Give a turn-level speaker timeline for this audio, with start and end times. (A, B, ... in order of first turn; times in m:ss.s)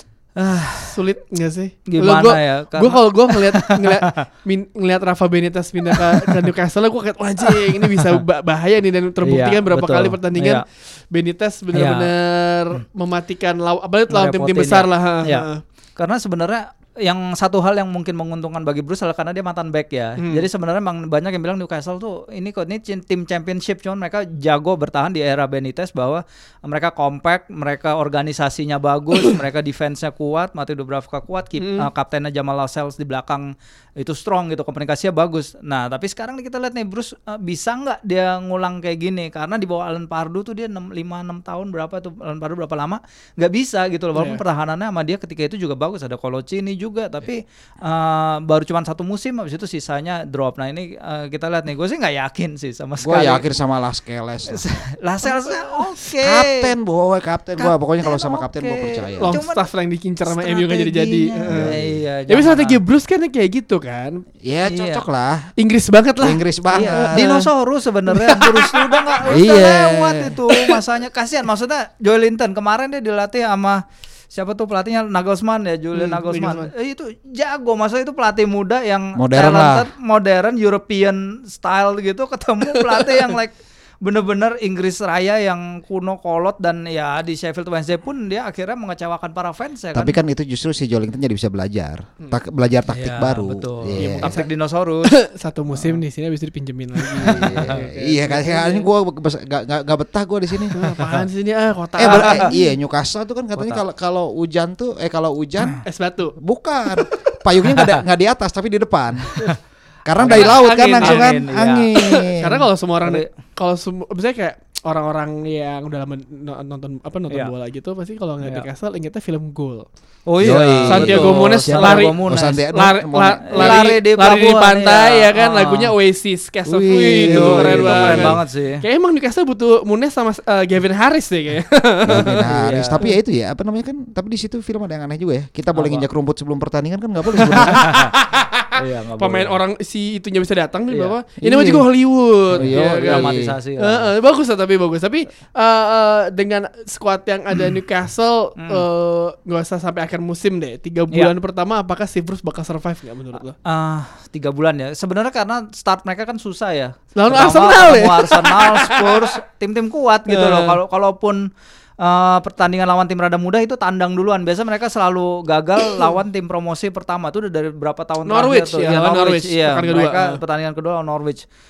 0:00.4-0:01.0 A
0:00.7-0:15.6 B
0:01.9-0:04.2 A
0:07.5-0:08.2 A
0:09.2-0:10.6 A
0:11.7-0:12.1 A
0:14.1-0:53.5 A
0:20.2-0:20.5 B
0:31.6-0:31.9 B
0:44.2-0:44.4 B
0:53.0-0:54.7 C
0:54.5-0:56.7 A
0:56.2-0:59.4 C
0:57.6-0:59.7 A
0:59.2-1:01.8 B
1:00.3-1:02.8 A
1:01.5-1:02.0 C
1:02.3-1:04.2 B
1:04.4-1:05.5 C
1:04.7-1:05.0 A
1:05.6-1:07.5 B
1:06.2-1:07.4 C
1:06.7-1:30.2 A
1:08.1-1:09.2 B
1:09.2-1:10.3 C
1:10.5-1:10.8 B
1:15.9-1:16.7 B
1:19.2-1:19.9 C
1:29.9-1:34.4 C
1:32.9-1:35.1 A
1:34.0-1:34.5 B
1:35.0-1:38.9 B
1:37.2-1:40.8 C
1:37.3-1:37.9 A
1:40.7-1:42.6 B
1:42.0-1:45.8 C
1:42.1-1:42.5 A
1:43.6-1:43.8 A
1:45.8-1:46.4 B
1:46.4-1:49.4 C
1:47.7-1:48.0 A
1:50.0-1:52.6 C
1:50.2-1:52.3 A
1:50.2-1:51.4 B
1:52.4-1:59.9 B
1:53.0-1:53.3 A
2:00.3-2:02.6 A
2:00.4-2:03.9 C
2:00.8-2:02.2 B
2:02.7-2:12.4 B
2:03.5-2:06.0 A
2:06.7-2:08.4 C
2:07.2-2:08.8 A
2:12.0-2:18.0 C
2:12.4-2:13.0 A
2:15.7-2:16.1 A
2:17.4-2:33.6 B
2:17.6-2:18.1 A
2:18.7-2:19.6 A
2:20.9-2:21.2 A
2:21.4-2:21.9 C
2:22.5-2:24.1 A
2:22.5-2:23.5 C
2:28.6-2:28.8 A
2:33.6-2:41.5 A
2:37.2-2:39.3 B
2:40.3-2:40.8 B
2:42.0-2:51.4 A
2:48.2-2:50.4 B